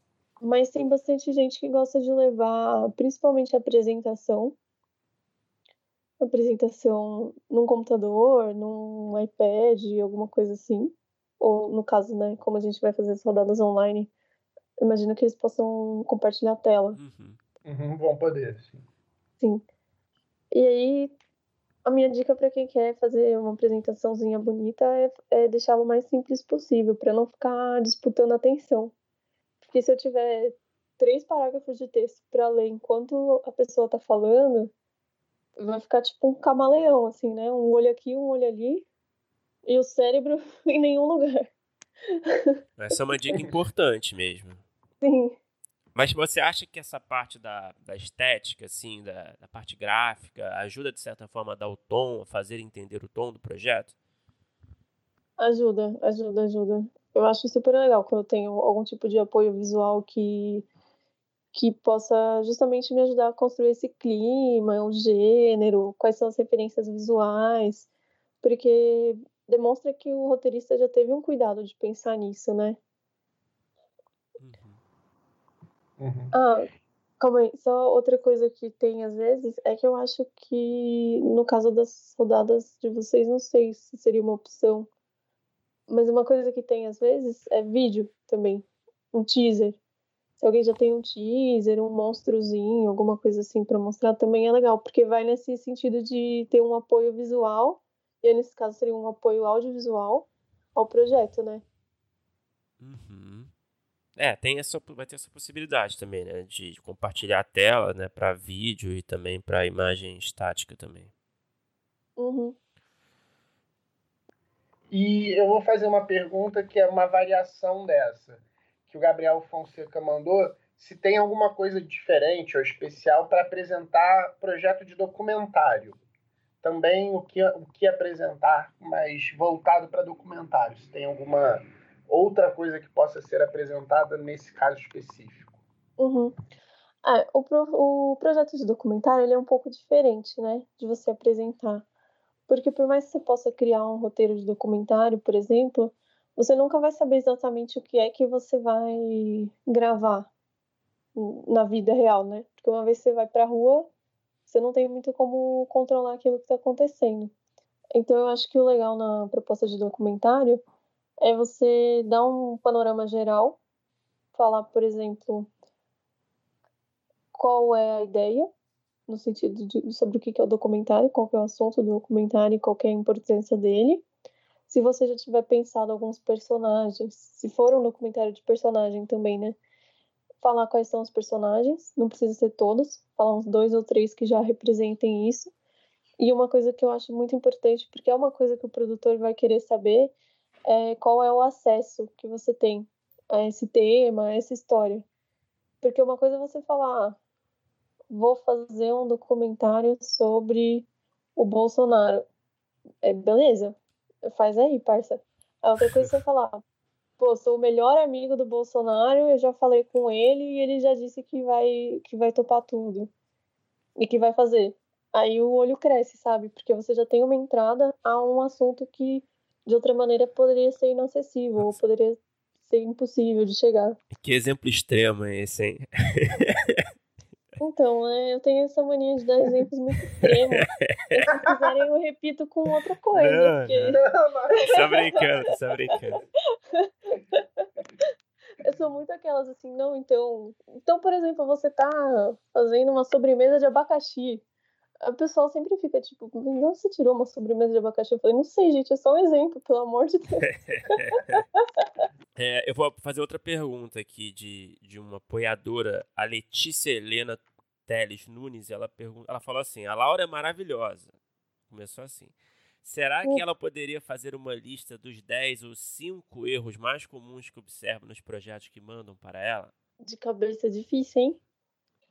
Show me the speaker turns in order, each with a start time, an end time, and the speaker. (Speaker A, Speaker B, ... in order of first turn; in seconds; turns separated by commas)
Speaker A: 0.4-4.5, Speaker A: 6.2-14.1, Speaker A: 14.8-17.0, Speaker B: 16.9-17.4, Speaker C: 17.6-18.8, Speaker A: 19.4-19.6, Speaker A: 20.5-21.1, Speaker A: 21.9-28.9, Speaker A: 29.6-34.7, Speaker A: 35.6-38.9, Speaker A: 39.6-41.5, Speaker A: 42.2-42.6, Speaker B: 42.8-44.6, Speaker A: 45.0-45.4, Speaker B: 45.9-53.9, Speaker A: 55.4-60.6, Speaker A: 61.5-67.9, Speaker A: 68.4-72.8, Speaker B: 74.4-74.8, Speaker C: 76.0-76.3, Speaker A: 76.3-76.7, Speaker A: 77.2-84.9, Speaker A: 85.9-89.8, Speaker A: 90.4-101.6, Speaker B: 102.8-103.5, Speaker B: 104.2-111.1, Speaker A: 112.2-112.5, Speaker C: 114.9-126.0, Speaker C: 126.6-135.6, Speaker A: 136.0-136.3, Speaker A: 137.0-141.9, Speaker A: 142.5-150.3, Speaker A: 151.2-153.9, Speaker A: 154.4-157.3, Speaker A: 157.9-160.6, Speaker A: 161.2-163.6, Speaker A: 164.3-165.5, Speaker A: 167.3-168.5, Speaker A: 169.1-174.0, Speaker A: 174.7-179.6, Speaker A: 180.4-185.5, Speaker A: 186.2-190.1, Speaker A: 190.7-195.0, Speaker A: 195.8-197.2, Speaker A: 198.1-202.2, Speaker A: 203.0-206.6, Speaker A: 207.2-213.1, Speaker A: 214.0-224.0, Speaker B: 224.1-226.8, Speaker A: 227.6-230.6, Speaker B: 230.8-231.4, Speaker A: 231.2-234.0, Speaker B: 233.1-234.0, Speaker C: 234.0-234.8, Speaker B: 234.7-236.2, Speaker A: 236.7-238.1, Speaker A: 238.6-244.4, Speaker A: 245.0-251.2, Speaker B: 250.7-251.4, Speaker B: 252.4-261.1, Speaker B: 261.7-269.7, Speaker A: 270.0-271.4